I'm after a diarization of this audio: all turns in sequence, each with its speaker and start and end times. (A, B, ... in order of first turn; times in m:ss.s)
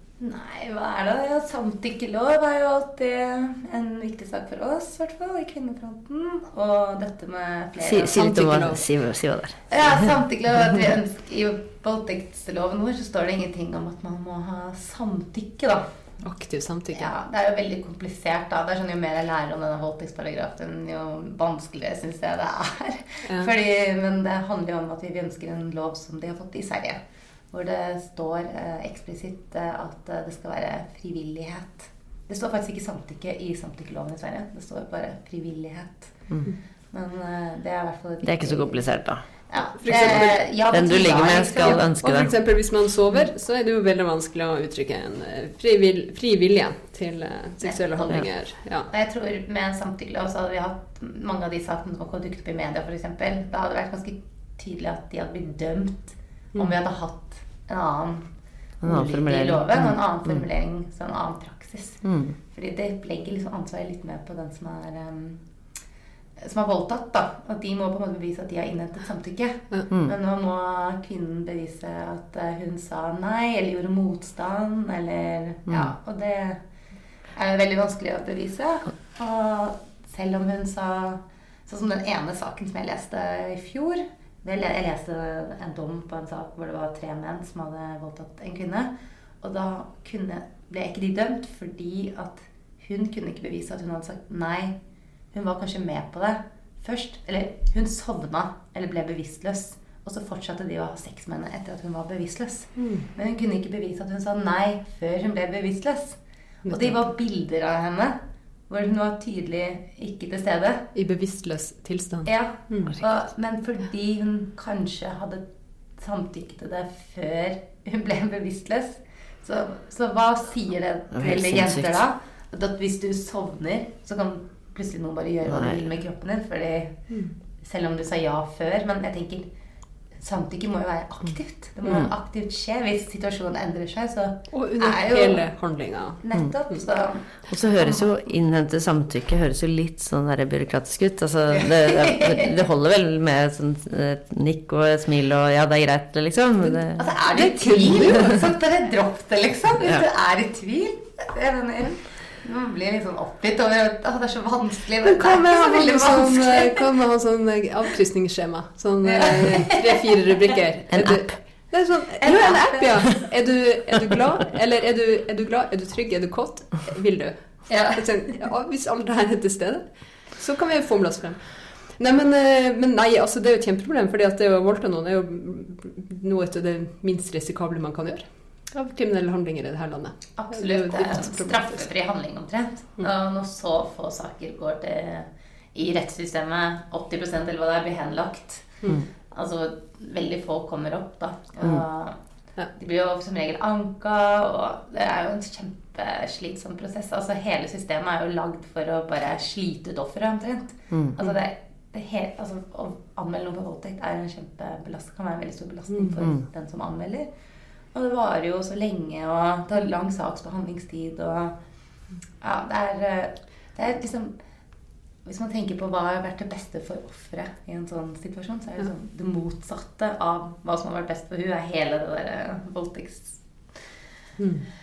0:00.2-0:08.2 A
0:07.8-0:10.1 B
0:08.1-0:08.8 C
0:09.7-0:15.8 A
0:16.2-0:17.1 C
0:16.9-0:27.0 A
0:27.5-0:36.3 A
0:36.9-0:38.9 A
0:38.2-0:39.2 B
0:39.5-0:41.8 A
0:39.8-0:40.4 C
0:39.9-0:42.3 B
0:41.6-0:48.9 C
0:47.6-0:48.2 A
0:48.9-0:58.3 A
0:58.8-1:00.3 B
0:58.8-1:05.4 A
1:02.0-1:02.3 B
1:06.4-1:16.6 A
1:17.4-1:34.8 A
1:35.3-1:48.2 A
1:42.8-1:43.0 C
1:46.6-1:47.0 C
1:48.7-1:50.9 A
1:50.9-1:53.0 C
1:52.2-1:55.4 A
1:56.0-2:07.1 A
2:01.1-2:02.0 B
2:05.4-2:05.8 B
2:07.6-2:09.4 A
2:10.2-2:15.5 A
2:11.8-2:12.1 B
2:14.5-2:16.2 C
2:16.2-2:18.0 A
2:17.5-2:27.1 B
2:21.5-2:22.6 A
2:26.9-2:36.8 A
2:27.3-2:28.4 C
2:27.9-2:28.3 B
2:35.0-3:01.8 C
2:39.0-2:40.0 A
2:40.9-2:41.4 B
2:42.2-2:42.9 A
2:47.7-2:48.0 A
3:00.4-3:12.2 A
3:12.7-3:27.3 A
3:27.9-3:31.6 A
3:32.4-3:34.3 A
3:35.2-3:43.4 A
3:44.4-3:44.6 C